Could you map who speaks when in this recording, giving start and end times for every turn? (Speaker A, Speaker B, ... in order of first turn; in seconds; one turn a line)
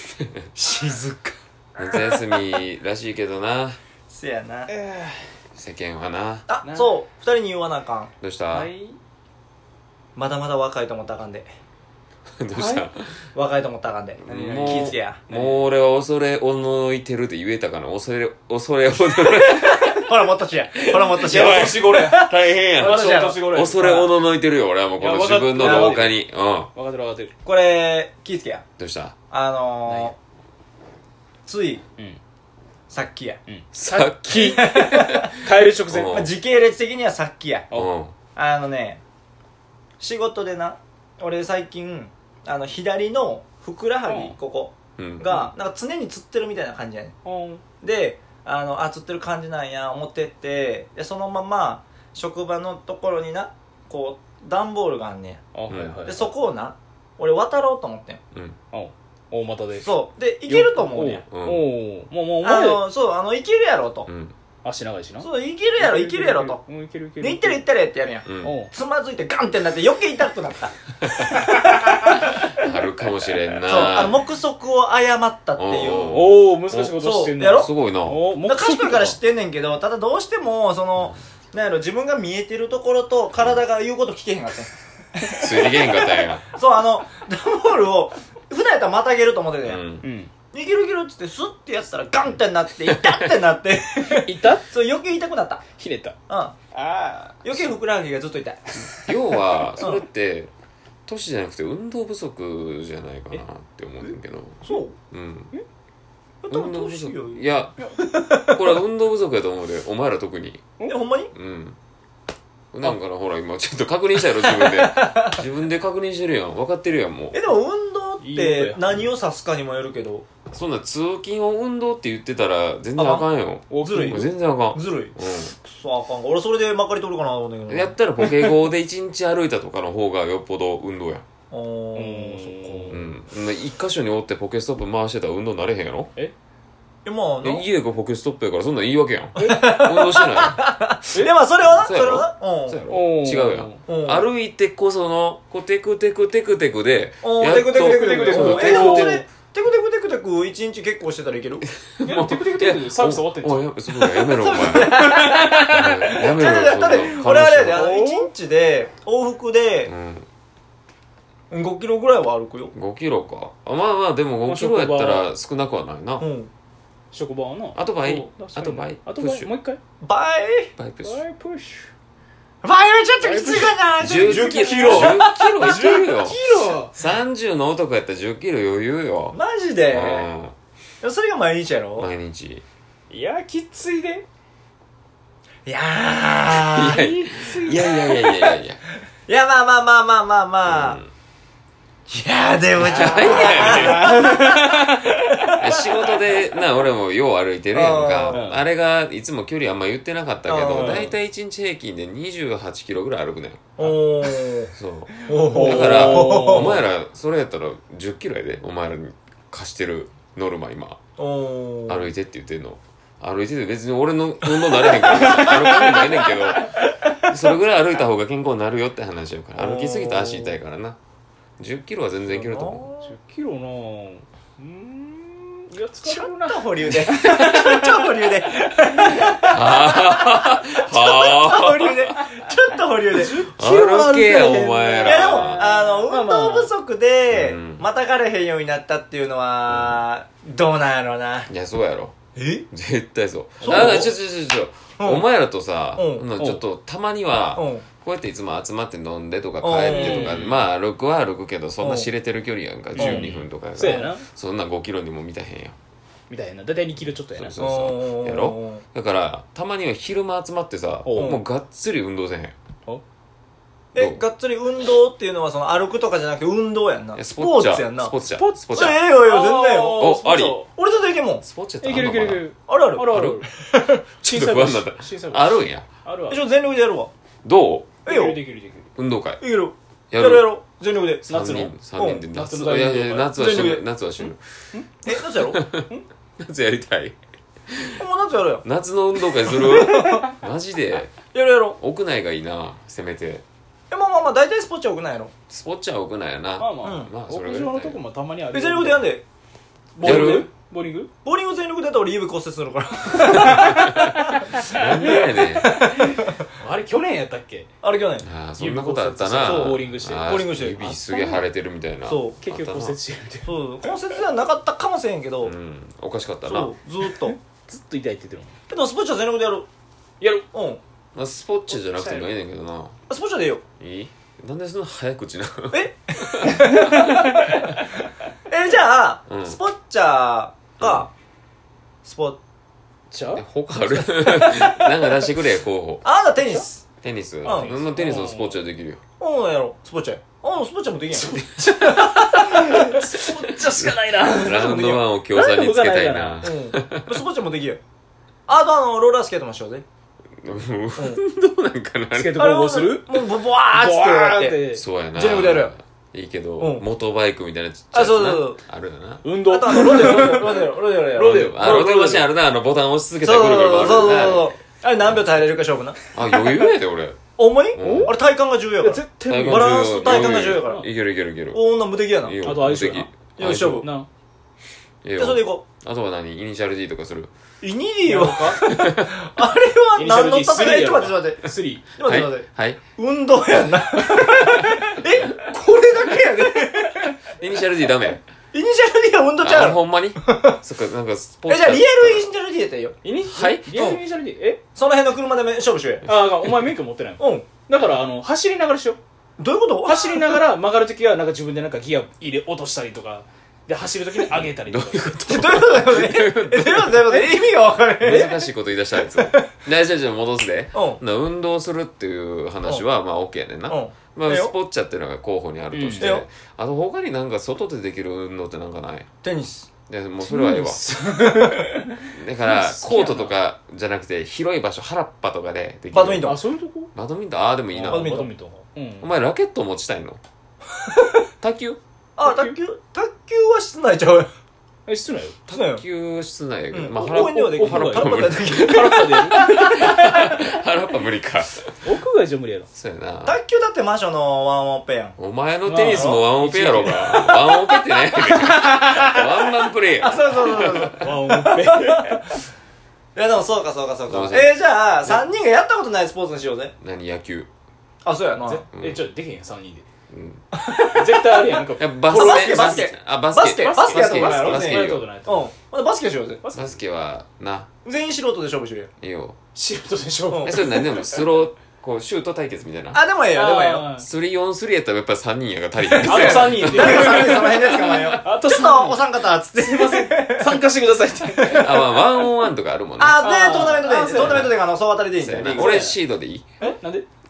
Speaker A: 0.5-1.3
Speaker B: 1.8-3.8
Speaker A: 4.1-4.7
Speaker C: 4.7-5.3
Speaker B: 5.5-6.5
Speaker A: 6.5-8.1
Speaker C: 6.6-6.9
Speaker B: 8.2-8.7
Speaker C: 8.5-9.0
Speaker A: 10.2-11.5
Speaker B: 12.4-13.2
Speaker C: 12.5-12.8
Speaker A: 13.3-15.2
Speaker B: 14.3-20.1
Speaker C: 14.3-15.6
Speaker A: 19.3-23.4
Speaker B: 20.8-26.7
Speaker C: 21.1-24.1
Speaker C: 25.0-26.2
Speaker A: 25.6-26.1
Speaker C: 26.7-27.3
Speaker A: 27.4-28.6
Speaker B: 28.8-29.1
Speaker A: 29.3-30.1
Speaker C: 29.9-30.1
Speaker A: 31.4-31.8
Speaker A: 32.9-33.4
Speaker C: 33.5-36.3
Speaker B: 33.7-35.3
Speaker A: 34.4-35.3
Speaker B: 35.9-36.3
Speaker A: 36.1-37.7
Speaker B: 37.7-38.1
Speaker A: 38.4-39.0
Speaker A: 40.0-47.1
Speaker C: 44.1-44.4
Speaker B: 45.0-45.3
Speaker C: 47.2-47.6
Speaker A: 47.8-55.4
Speaker C: 55.5-56.3
Speaker B: 55.7-56.0
Speaker A: 56.0-58.2
Speaker C: 58.7-59.9
Speaker A: 59.8-61.2
Speaker C: 60.5-62.9
Speaker B: 61.3-61.7
Speaker A: 62.4-64.1
Speaker B: 64.1-64.3
Speaker C: 64.6-67.6
Speaker A: 65.2-66.6
Speaker A: 67.2-72.4
Speaker B: 68.2-68.5
Speaker C: 68.4-68.7
Speaker B: 72.5-74.2
Speaker A: 73.6-76.4
Speaker B: 75.6-78.2
Speaker C: 76.0-79.2
Speaker A: 77.0-77.7
Speaker A: 78.4-89.8
Speaker B: 85.3-86.4
Speaker B: 89.7-90.1
Speaker C: 90.0-90.3
Speaker A: 90.5-95.6
Speaker C: 94.1-94.7
Speaker C: 95.8-96.2
Speaker A: 96.3-96.5
Speaker C: 96.7-97.6
Speaker A: 97.4-98.6
Speaker B: 99.0-100.5
Speaker B: 101.1-105.5
Speaker A: 104.6-104.9
Speaker A: 106.4-107.5
Speaker B: 106.5-107.8
Speaker A: 108.0-108.8
Speaker B: 108.4-110.7
Speaker A: 110.8-111.3
Speaker B: 111.3-111.8
Speaker B: 112.7-117.4
Speaker A: 114.4-115.4
Speaker A: 117.3-120.2
Speaker C: 118.2-118.9
Speaker B: 120.5-125.5
Speaker A: 123.0-123.2
Speaker C: 123.7-124.2
Speaker A: 123.8-128.0
Speaker B: 127.7-131.2
Speaker A: 131.5-133.0
Speaker C: 131.9-133.1
Speaker B: 132.9-136.1
Speaker A: 137.0-137.7
Speaker B: 137.4-140.6
Speaker A: 139.4-142.8
Speaker B: 141.6-149.2
Speaker C: 142.9-143.8
Speaker A: 143.9-144.2
Speaker A: 147.2-151.7
Speaker C: 147.6-149.2
Speaker B: 151.8-155.1
Speaker C: 152.0-153.7
Speaker A: 154.3-159.9
Speaker C: 154.9-156.2
Speaker B: 155.7-157.8
Speaker C: 157.7-158.3
Speaker B: 159.9-160.3
Speaker A: 161.5-162.7
Speaker B: 162.7-166.3
Speaker C: 164.4-165.3
Speaker A: 166.2-166.5
Speaker C: 167.1-169.8
Speaker B: 167.7-169.5
Speaker A: 170.0-170.7
Speaker B: 170.8-171.2
Speaker C: 171.0-171.9
Speaker A: 172.6-176.8
Speaker C: 173.2-176.9
Speaker B: 174.0-179.4
Speaker A: 179.3-180.3
Speaker B: 179.9-180.5
Speaker A: 181.0-182.1
Speaker B: 182.0-182.6
Speaker C: 183.1-184.2
Speaker A: 185.7-187.0
Speaker B: 186.7-188.8
Speaker C: 186.8-188.0
Speaker A: 189.3-191.0
Speaker B: 190.7-191.1
Speaker A: 192.1-196.1
Speaker B: 192.8-194.4
Speaker C: 192.8-194.7
Speaker B: 195.6-203.7
Speaker A: 197.7-198.4
Speaker C: 198.3-198.6
Speaker A: 200.5-201.1
Speaker C: 200.7-201.1
Speaker A: 203.8-204.7
Speaker B: 204.7-211.0
Speaker C: 205.2-206.8
Speaker A: 205.2-206.8
Speaker A: 211.2-212.1
Speaker B: 211.9-221.0
Speaker C: 214.6-216.4
Speaker A: 219.6-220.6
Speaker B: 221.6-222.8
Speaker A: 222.3-223.1
Speaker C: 223.0-228.1
Speaker A: 226.0-233.5
Speaker C: 229.1-229.4
Speaker B: 229.4-232.1
Speaker C: 233.1-236.7
Speaker B: 233.5-235.8
Speaker A: 235.0-241.5
Speaker B: 237.3-237.8
Speaker B: 239.7-240.0
Speaker B: 241.5-242.1
Speaker A: 242.3-242.7
Speaker B: 242.7-255.7
Speaker A: 243.6-244.1
Speaker A: 245.0-245.2
Speaker A: 245.9-246.2
Speaker C: 246.4-246.6
Speaker A: 247.5-247.8
Speaker A: 249.6-250.3
Speaker C: 249.8-250.6
Speaker A: 251.8-252.1
Speaker C: 252.9-254.2
Speaker A: 253.0-253.2
Speaker A: 253.8-254.1
Speaker C: 256.3-257.6
Speaker B: 257.4-262.5
Speaker A: 257.6-258.8
Speaker C: 261.0-261.4
Speaker A: 261.1-261.4
Speaker A: 263.9-268.1
Speaker B: 267.1-269.0
Speaker C: 268.3-270.7
Speaker A: 268.7-270.1
Speaker B: 269.9-270.6
Speaker A: 270.7-271.4
Speaker B: 271.4-272.4
Speaker C: 271.8-273.5
Speaker A: 272.7-274.0
Speaker B: 273.1-273.4
Speaker C: 274.2-276.4
Speaker B: 274.2-275.8
Speaker A: 276.3-277.1
Speaker B: 277.4-278.0
Speaker A: 278.1-278.4
Speaker C: 278.1-278.9
Speaker B: 279.0-279.4
Speaker A: 279.4-281.3
Speaker B: 280.1-280.4
Speaker C: 281.3-283.4
Speaker B: 281.3-284.4
Speaker A: 281.8-282.2
Speaker A: 283.3-283.8
Speaker A: 285.0-285.6
Speaker B: 285.5-285.9
Speaker B: 286.4-287.1
Speaker B: 287.7-288.0
Speaker A: 288.0-288.6
Speaker B: 288.6-291.1
Speaker A: 289.5-290.3
Speaker A: 291.3-291.8
Speaker B: 291.8-293.4
Speaker A: 293.9-295.3
Speaker B: 295.5-298.0
Speaker C: 296.6-299.2
Speaker A: 296.8-297.1
Speaker A: 298.5-299.2
Speaker A: 299.9-300.5
Speaker C: 300.0-301.1
Speaker B: 300.0-300.5
Speaker A: 301.2-304.4
Speaker C: 303.4-304.0
Speaker B: 303.5-304.0
Speaker C: 304.6-307.7
Speaker B: 304.6-305.7
Speaker A: 305.0-306.1
Speaker A: 307.8-308.2
Speaker B: 308.2-313.0
Speaker C: 308.6-311.4
Speaker A: 309.4-311.0
Speaker A: 312.1-312.4
Speaker C: 312.4-313.5
Speaker A: 313.4-315.5
Speaker B: 315.4-316.7
Speaker A: 316.4-317.4
Speaker C: 317.1-318.6
Speaker A: 318.7-319.7
Speaker C: 320.2-320.4
Speaker A: 320.5-320.8
Speaker B: 321.1-322.9
Speaker C: 321.7-322.3
Speaker A: 323.1-323.6
Speaker B: 323.8-326.6
Speaker A: 325.7-327.7
Speaker C: 326.5-327.8
Speaker A: 328.5-331.1
Speaker B: 329.3-329.6
Speaker B: 330.8-331.1
Speaker A: 332.0-332.4
Speaker C: 333.1-334.8
Speaker B: 333.3-336.0
Speaker A: 336.0-336.8
Speaker B: 337.0-339.0
Speaker C: 337.4-338.6
Speaker A: 337.4-337.7
Speaker A: 339.2-343.3
Speaker C: 341.1-344.8
Speaker B: 343.0-347.1
Speaker A: 344.4-345.0
Speaker C: 345.3-346.5
Speaker A: 346.4-347.8
Speaker A: 348.5-349.8
Speaker B: 350.4-352.5
Speaker A: 351.0-351.2
Speaker C: 352.1-354.8
Speaker A: 352.3-355.7
Speaker B: 354.7-360.1
Speaker A: 356.6-356.8
Speaker A: 357.9-358.6
Speaker C: 359.2-362.3
Speaker A: 359.4-361.7
Speaker B: 361.3-364.5
Speaker A: 363.2-366.0
Speaker B: 366.1-367.2
Speaker A: 367.4-370.9
Speaker B: 367.8-368.1
Speaker C: 367.8-368.1
Speaker C: 368.8-370.9
Speaker B: 369.2-371.6
Speaker A: 371.5-372.4
Speaker B: 372.2-373.8
Speaker C: 372.4-374.1
Speaker A: 373.4-373.9
Speaker B: 375.0-377.3
Speaker A: 375.2-375.6
Speaker A: 377.6-387.2
Speaker C: 378.0-378.6
Speaker B: 378.6-378.9
Speaker C: 379.9-381.9
Speaker B: 382.0-382.8
Speaker B: 387.3-388.2
Speaker A: 388.5-390.6
Speaker B: 389.4-392.3
Speaker A: 391.5-392.9
Speaker C: 393.0-394.6
Speaker B: 393.2-393.9
Speaker A: 394.7-396.1
Speaker C: 396.1-399.0
Speaker B: 396.1-396.5
Speaker A: 397.2-397.5
Speaker A: 399.4-400.4
Speaker C: 399.9-405.2
Speaker B: 404.2-407.3
Speaker A: 405.3-408.4
Speaker B: 408.0-419.1
Speaker A: 409.1-409.5
Speaker A: 410.7-411.0
Speaker A: 413.7-414.5
Speaker C: 415.7-416.2
Speaker A: 416.0-416.2
Speaker A: 419.2-419.7
Speaker B: 419.9-420.9
Speaker C: 420.2-423.3
Speaker A: 421.2-421.6
Speaker B: 422.1-426.3
Speaker A: 425.9-426.4
Speaker C: 426.2-426.9
Speaker B: 426.9-428.2
Speaker C: 427.7-429.1
Speaker A: 427.9-428.3
Speaker B: 429.0-430.2
Speaker A: 430.9-431.2
Speaker B: 431.4-431.8
Speaker A: 432.2-434.3
Speaker C: 432.2-432.5
Speaker C: 434.9-435.4
Speaker A: 435.5-435.8
Speaker B: 435.6-441.9
Speaker A: 436.7-439.9
Speaker C: 436.9-439.8
Speaker C: 441.8-442.7
Speaker B: 442.7-443.4
Speaker A: 443.2-445.1
Speaker B: 445.2-451.1
Speaker C: 445.6-447.3
Speaker A: 445.9-446.2
Speaker A: 448.1-449.3
Speaker A: 450.0-452.1
Speaker C: 451.0-452.4
Speaker A: 453.1-456.7
Speaker B: 454.1-455.2
Speaker B: 456.8-457.5
Speaker A: 458.0-458.6
Speaker C: 458.4-459.8
Speaker B: 458.7-459.0
Speaker B: 460.1-460.4
Speaker A: 460.5-466.4
Speaker C: 460.8-462.9
Speaker B: 461.8-465.1
Speaker C: 463.5-465.5
Speaker C: 466.4-466.8
Speaker B: 466.5-467.7
Speaker A: 467.8-468.9
Speaker B: 469.0-469.4
Speaker C: 469.5-471.2
Speaker A: 470.3-470.7
Speaker B: 470.4-473.0
Speaker A: 472.9-473.9
Speaker C: 473.3-474.1
Speaker B: 473.9-478.2
Speaker C: 475.9-481.8
Speaker A: 476.0-480.6
Speaker A: 481.4-481.8
Speaker B: 481.5-483.2
Speaker A: 483.0-485.9
Speaker C: 483.2-484.6
Speaker B: 484.1-484.6
Speaker B: 485.1-486.4
Speaker C: 485.3-486.0
Speaker C: 486.6-487.1